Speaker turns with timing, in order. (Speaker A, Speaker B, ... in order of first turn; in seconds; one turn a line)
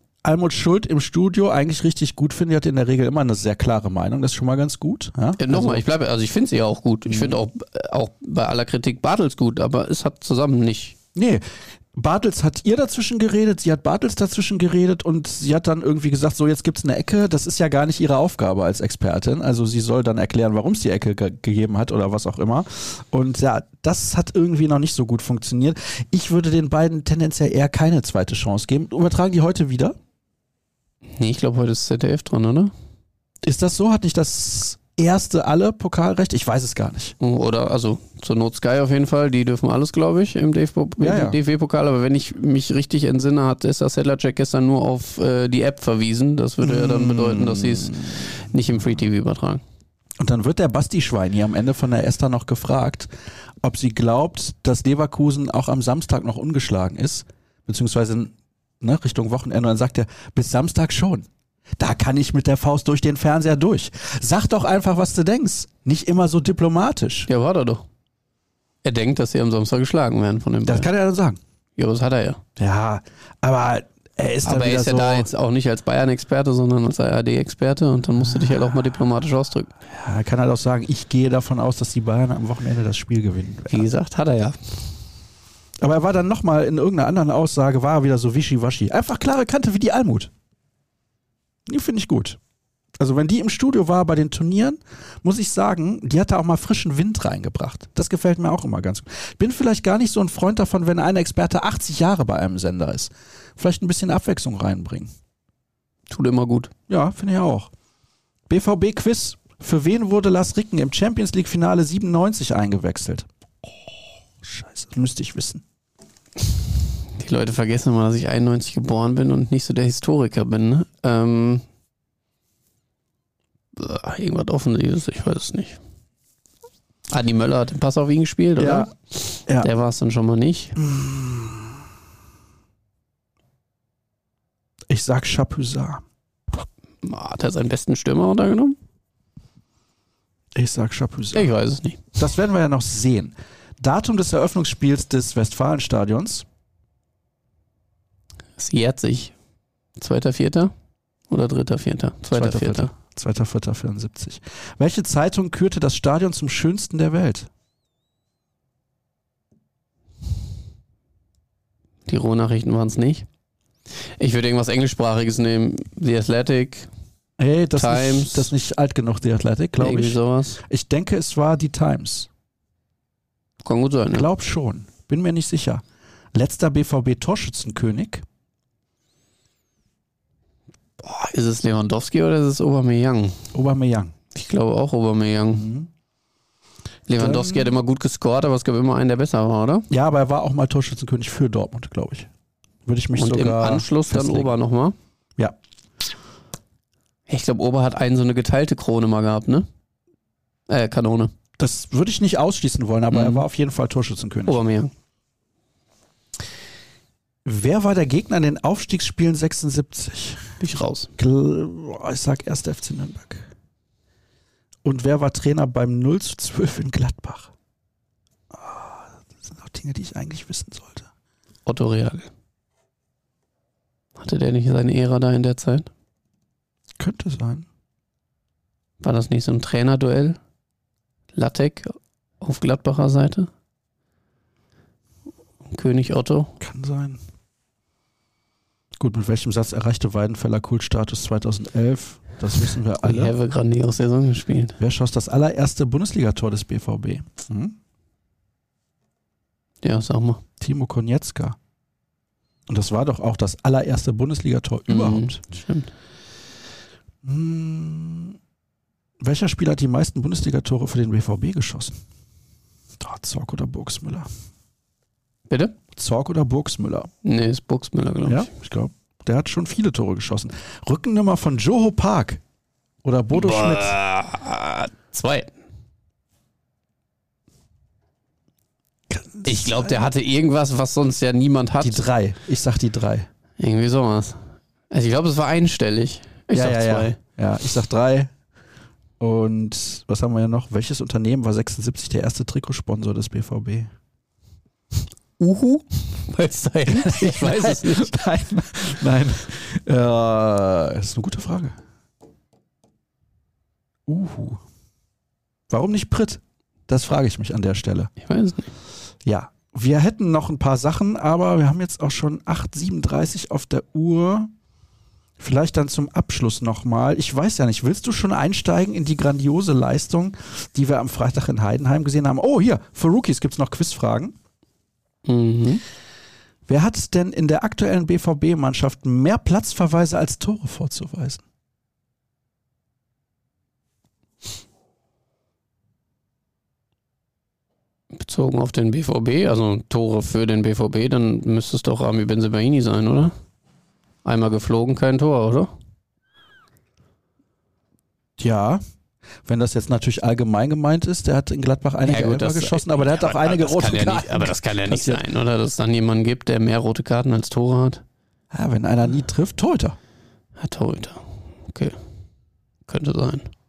Speaker A: 0.2-5.8
Speaker B: 5.4-11.0
Speaker A: 7.1-7.4
Speaker A: 11.2-30.0
Speaker B: 31.2-32.7
Speaker A: 33.4-37.1
Speaker B: 37.2-49.6
Speaker A: 41.0-41.4
Speaker A: 46.6-48.2
Speaker A: 50.2-53.1
Speaker A: 53.6-61.3
Speaker A: 61.8-67.3
Speaker B: 67.3-67.8
Speaker B: 68.8-70.9
Speaker A: 70.7-71.4
Speaker B: 71.8-72.4
Speaker A: 72.6-75.3
Speaker B: 74.5-79.7
Speaker A: 79.9-83.9
Speaker B: 83.7-84.8
Speaker A: 85.8-90.3
Speaker A: 91.7-92.4
Speaker A: 93.0-105.1
Speaker B: 106.1-106.7
Speaker A: 106.9-107.7
Speaker A: 108.5-115.6
Speaker B: 117.2-121.6
Speaker B: 123.8-125.8
Speaker B: 127.1-130.8
Speaker A: 128.6-128.9
Speaker A: 130.8-131.8
Speaker A: 134.9-136.0
Speaker B: 137.0-138.8
Speaker A: 140.6-141.5
Speaker B: 141.3-142.0
Speaker A: 142.2-146.4
Speaker B: 148.6-149.3
Speaker B: 150.0-150.7
Speaker B: 151.3-152.9
Speaker A: 152.3-157.5
Speaker B: 162.1-163.3
Speaker B: 164.2-166.9
Speaker A: 167.4-172.3
Speaker B: 167.8-168.5
Speaker B: 169.8-170.6
Speaker B: 173.7-174.3
Speaker A: 174.1-175.8
Speaker A: 176.3-178.2
Speaker B: 181.0-183.5
Speaker A: 183.5-184.1
Speaker B: 184.3-185.7
Speaker A: 185.5-185.9
Speaker B: 187.1-189.9
Speaker A: 187.2-187.7
Speaker A: 189.9-192.3
Speaker A: 192.8-194.5
Speaker B: 193.2-194.9
Speaker B: 197.3-199.7
Speaker B: 200.7-201.3
Speaker A: 201.6-204.6
Speaker B: 203.1-203.4
Speaker B: 204.5-204.9
Speaker A: 207.4-210.5
Speaker B: 210.6-211.1
Speaker A: 211.2-213.5
Speaker A: 214.8-217.5
Speaker A: 218.5-221.1
Speaker B: 221.7-222.3
Speaker B: 224.2-225.9
Speaker A: 227.0-227.7
Speaker B: 229.0-230.4
Speaker B: 231.3-233.5
Speaker B: 235.7-236.5
Speaker A: 236.6-237.2
Speaker A: 239.0-243.3
Speaker B: 243.0-244.8
Speaker A: 244.8-247.8
Speaker B: 249.8-250.4
Speaker A: 250.6-251.6
Speaker A: 252.7-255.4
Speaker B: 254.9-255.9
Speaker A: 257.2-258.4
Speaker A: 259.2-262.0
Speaker A: 263.0-264.3
Speaker A: 265.9-267.1
Speaker B: 267.2-268.5
Speaker A: 268.2-272.4
Speaker A: 273.0-273.9
Speaker B: 273.3-275.5
Speaker A: 279.1-280.0
Speaker B: 279.4-282.1
Speaker A: 281.8-283.3
Speaker B: 283.6-287.2
Speaker A: 286.5-288.3
Speaker A: 289.2-293.9
Speaker B: 295.4-298.2
Speaker A: 296.9-301.8
Speaker A: 304.1-304.6
Speaker A: 305.7-308.1
Speaker B: 308.2-308.7
Speaker A: 309.2-314.5
Speaker A: 315.4-324.4
Speaker B: 325.3-325.8
Speaker A: 326.7-331.4
Speaker B: 338.2-343.3
Speaker B: 344.2-345.7
Speaker A: 348.4-348.8
Speaker A: 349.5-355.2
Speaker B: 352.1-358.0
Speaker A: 358.5-360.0
Speaker B: 360.6-362.0
Speaker B: 362.9-363.5